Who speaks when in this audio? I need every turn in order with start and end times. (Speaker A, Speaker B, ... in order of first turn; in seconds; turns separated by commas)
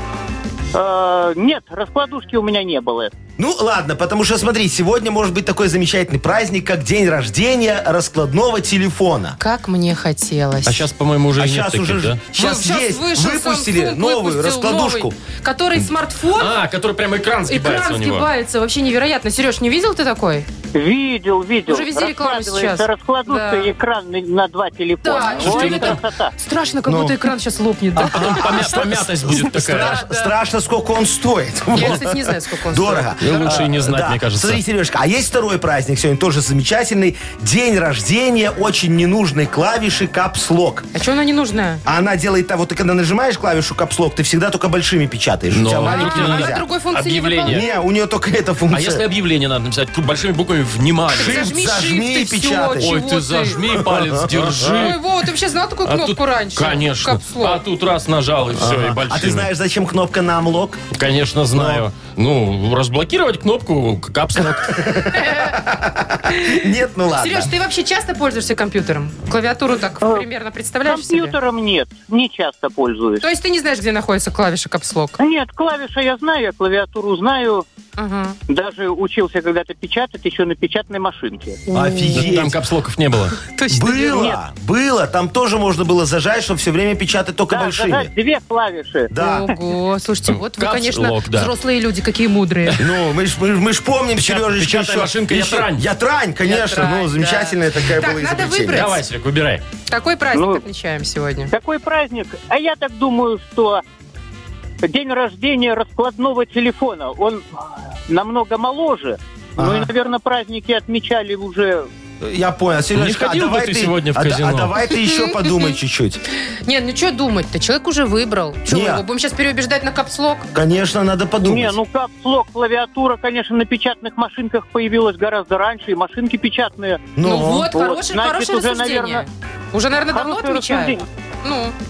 Speaker A: 0.7-3.1, Speaker B: 3.4-9.4, Speaker C: 9.4-10.9, Speaker D: 10.6-12.2, Speaker B: 11.4-15.1, Speaker C: 12.3-16.6, Speaker D: 16.3-18.3, Speaker C: 17.5-20.5, Speaker A: 20.7-26.3, Speaker C: 21.7-23.7, Speaker C: 25.0-28.8, Speaker D: 25.2-26.0, Speaker B: 26.8-27.2, Speaker B: 27.9-40.9, Speaker D: 28.1-30.0, Speaker C: 29.6-30.3, Speaker C: 31.7-33.7, Speaker D: 33.2-34.6, Speaker C: 40.9-41.8, Speaker B: 41.9-46.6, Speaker D: 45.5-47.6, Speaker C: 45.8-47.7, Speaker B: 47.5-49.0, Speaker D: 48.7-51.5, Speaker C: 51.1-53.6, Speaker B: 51.2-53.0, Speaker D: 52.8-55.0, Speaker B: 53.7-54.9, Speaker C: 54.6-57.6, Speaker D: 55.9-59.5, Speaker B: 58.5-60.8, Speaker D: 60.9-65.0, Speaker B: 61.5-61.8, Speaker B: 64.6-67.5, Speaker C: 65.1-65.6, Speaker C: 66.3-71.3, Speaker A: 70.8-73.2, Speaker C: 73.2-75.2, Speaker A: 75.2-77.6, Speaker C: 78.0-78.4, Speaker A: 78.5-81.6, Speaker C: 81.7-82.2, Speaker B: 81.7-82.6, Speaker D: 82.1-83.4, Speaker C: 83.4-84.3, Speaker B: 83.7-88.1, Speaker A: 87.5-89.1, Speaker B: 89.1-89.5, Speaker C: 89.2-92.8, Speaker D: 90.3-91.5, Speaker B: 92.8-99.0, Speaker D: 94.2-95.8, Speaker C: 96.4-99.0, Speaker D: 98.7-99.6, Speaker C: 99.9-101.5, Speaker A: 100.3-100.6, Speaker A: 101.5-103.8, Speaker A: 104.8-107.4, Speaker A: 108.1-111.9, Speaker B: 109.6-109.9, Speaker B: 112.2-116.2, Speaker D: 112.9-114.7, Speaker C: 114.9-115.7, Speaker C: 116.7-120.5, Speaker B: 118.7-119.0, Speaker B: 120.5-121.8, Speaker A: 121.4-127.1, Speaker B: 127.1-127.7, Speaker C: 127.2-131.7, Speaker A: 127.7-129.2, Speaker A: 130.1-131.0